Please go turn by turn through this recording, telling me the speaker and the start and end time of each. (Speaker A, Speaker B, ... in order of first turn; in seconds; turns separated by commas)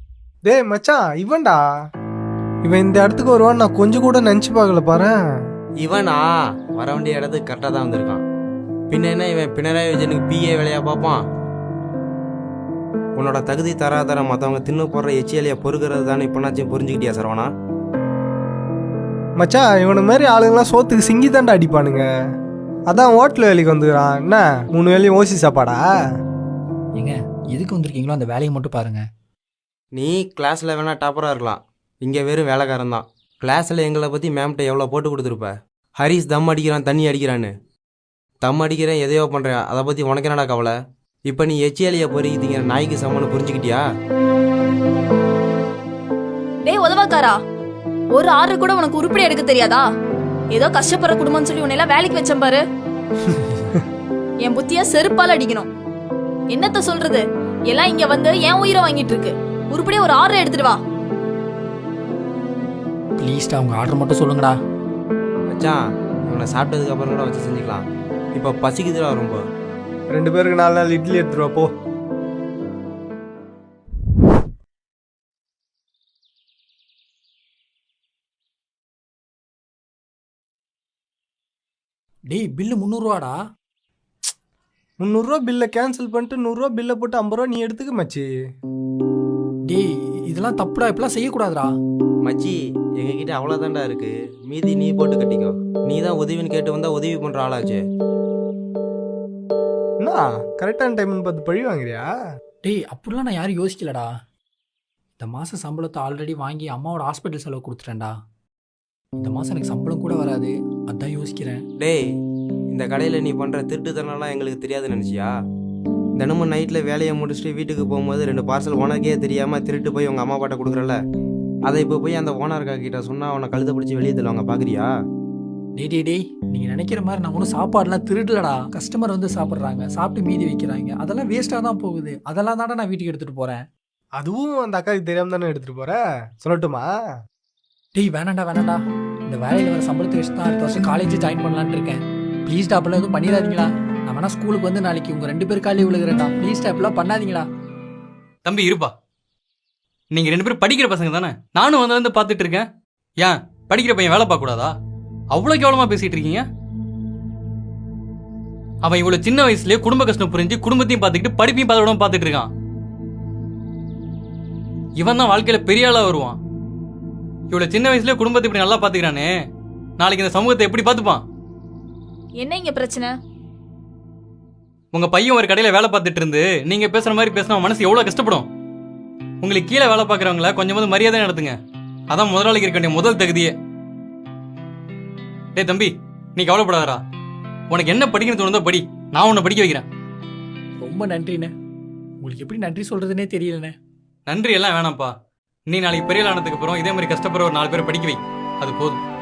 Speaker A: 0.4-1.6, Speaker A: 2.6-5.1, Speaker B: 5.8-8.2, Speaker B: 8.9-11.2, Speaker B: 13.2-17.5, Speaker A: 19.4-22.1, Speaker A: 22.9-25.8, Speaker C: 27.0-29.0, Speaker B: 29.9-37.5, Speaker B: 38.4-40.7, Speaker B: 41.3-43.8, Speaker D: 46.6-47.4, Speaker D: 48.1-49.9, Speaker D: 50.5-52.6, Speaker C: 53.3-53.7, Speaker D: 54.4-55.7, Speaker D: 56.5-60.8, Speaker C: 63.2-64.5, Speaker B: 65.5-69.4, Speaker A: 70.1-71.7, Speaker C: 82.3-83.3, Speaker A: 85.0-88.3, Speaker C: 89.7-91.7, Speaker B: 92.2-97.8, Speaker A: 100.0-102.1, Speaker C: 102.6-104.1, Speaker C: 105.2-108.2, Speaker C: 109.2-111.6, Speaker B: 111.8-112.0, Speaker B: 112.7-115.3, Speaker B: 116.2-121.0, Speaker B: 121.7-124.9, Speaker C: 125.8-133.7, Speaker A: 134.2-136.9, Speaker C: 137.9-147.5, Speaker E: 148.4-148.9, Speaker E: 150.1-152.7, Speaker E: 153.2-154.7, Speaker E: 155.3-156.4, Speaker E: 158.8-162.5, Speaker E: 165.0-166.4, Speaker E: 167.5-169.3, Speaker E: 170.0-171.2, Speaker D: 172.4-173.1, Speaker E: 174.9-178.5, Speaker E: 179.4-181.6, Speaker E: 182.1-183.5, Speaker E: 185.5-187.0, Speaker E: 187.7-189.8, Speaker C: 190.8-191.5, Speaker C: 192.2-193.8, Speaker E: 194.3-195.1, Speaker E: 195.7-199.0